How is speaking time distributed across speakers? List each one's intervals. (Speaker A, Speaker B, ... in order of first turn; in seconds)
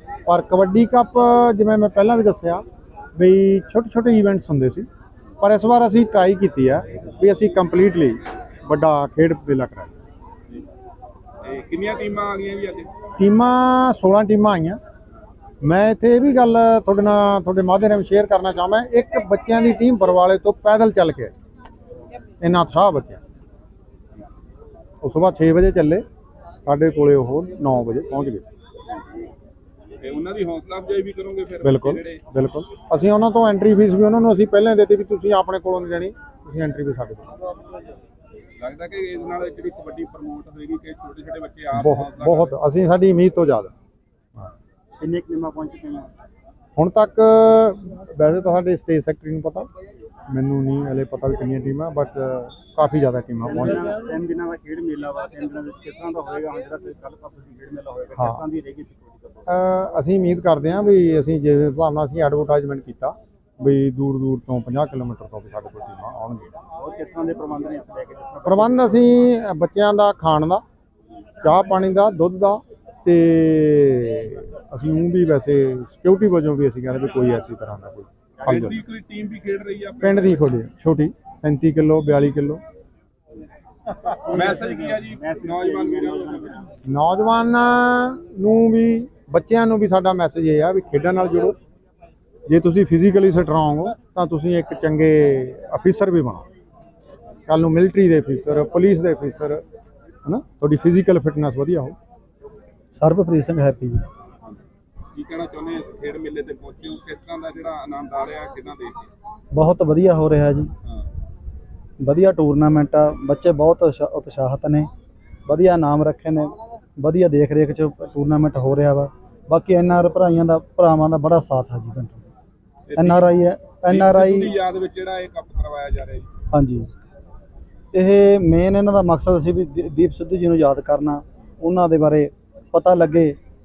Speaker A: 0.3-4.9, 5.4-10.0, 13.2-14.8, 15.6-21.3, 22.4-23.2, 25.0-26.1, 26.6-28.6, 31.6-37.3, 41.7-43.7, 46.8-49.7, 50.3-53.9, 58.2-58.4, 59.5-66.5, 68.5-70.6, 71.4-78.8, 80.0-82.6, 86.9-91.6, 92.5-96.5, 97.5-99.6, 100.2-102.0
Speaker B: 11.4-12.9, 30.0-32.2, 38.6-42.5, 78.4-80.5, 84.3-86.6, 105.2-109.0, 122.9-123.3, 123.9-126.3
Speaker C: 45.0-46.1, 53.5-59.5, 66.8-69.1, 84.2-86.7
Speaker D: 102.9-104.0, 109.5-110.7, 112.0-114.9, 115.5-122.3, 123.0-124.5, 126.5-126.9, 127.9-133.4